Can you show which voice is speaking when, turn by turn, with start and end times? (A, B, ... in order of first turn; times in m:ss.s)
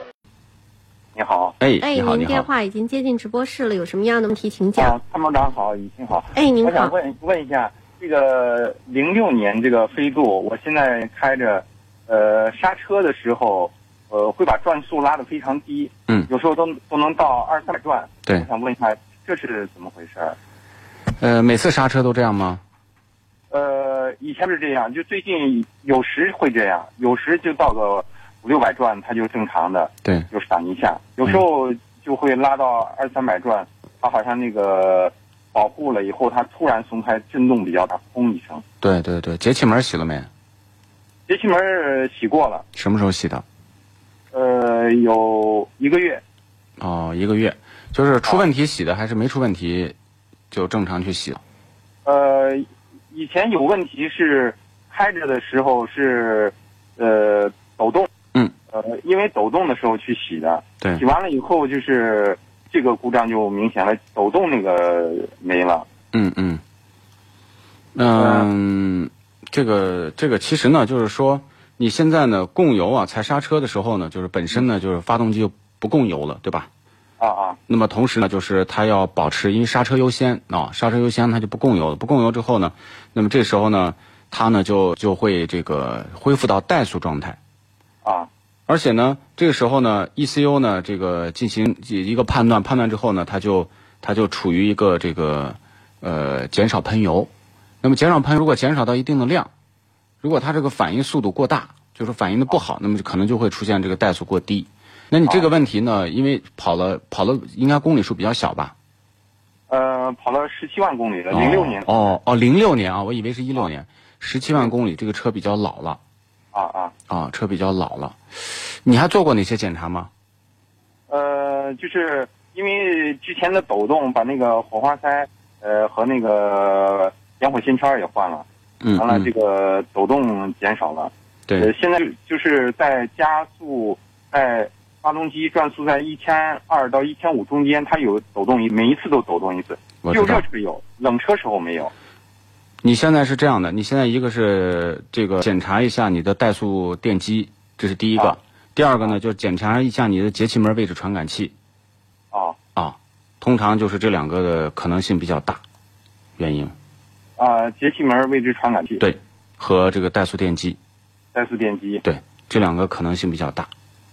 0:01.1-0:01.6 A
0:01.6-0:02.5 B
0:01.8-0:05.0 C
0:04.8-0:20.4 A
0:06.3-0:06.9 C
0:21.2-0:22.6 B
0:23.5-0:38.6 A
0:38.8-0:40.3 B
0:41.3-0:42.6 A
0:42.7-0:43.4 B
0:44.3-0:46.2 A
0:46.8-0:49.9 B
0:50.5-0:51.4 B
0:52.0-0:58.1 A
0:58.7-1:05.8 A
1:06.1-1:06.6 B
1:07.9-1:16.7 B
1:08.1-1:08.5 A
1:17.2-1:17.6 A
1:17.7-1:27.4 B
1:28.0-1:28.3 A
1:28.7-1:37.3 B
1:37.8-1:39.5 B
1:40.2-1:48.7 B
1:49.7-1:52.2 A
1:51.3-1:56.0 B
1:56.5-1:56.9 A
1:57.1-2:00.1 B
2:01.1-2:08.4 A
2:08.8-2:09.3 B
2:09.0-2:21.9 A
2:20.0-2:20.5 B
2:22.8-2:31.5 B
2:32.3-2:32.6 A
2:32.8-2:35.6 B
2:36.4-2:36.7 B
2:37.4-2:39.1 A
2:39.0-2:40.8 B
2:41.3-2:42.0 A
2:42.0-2:43.7 B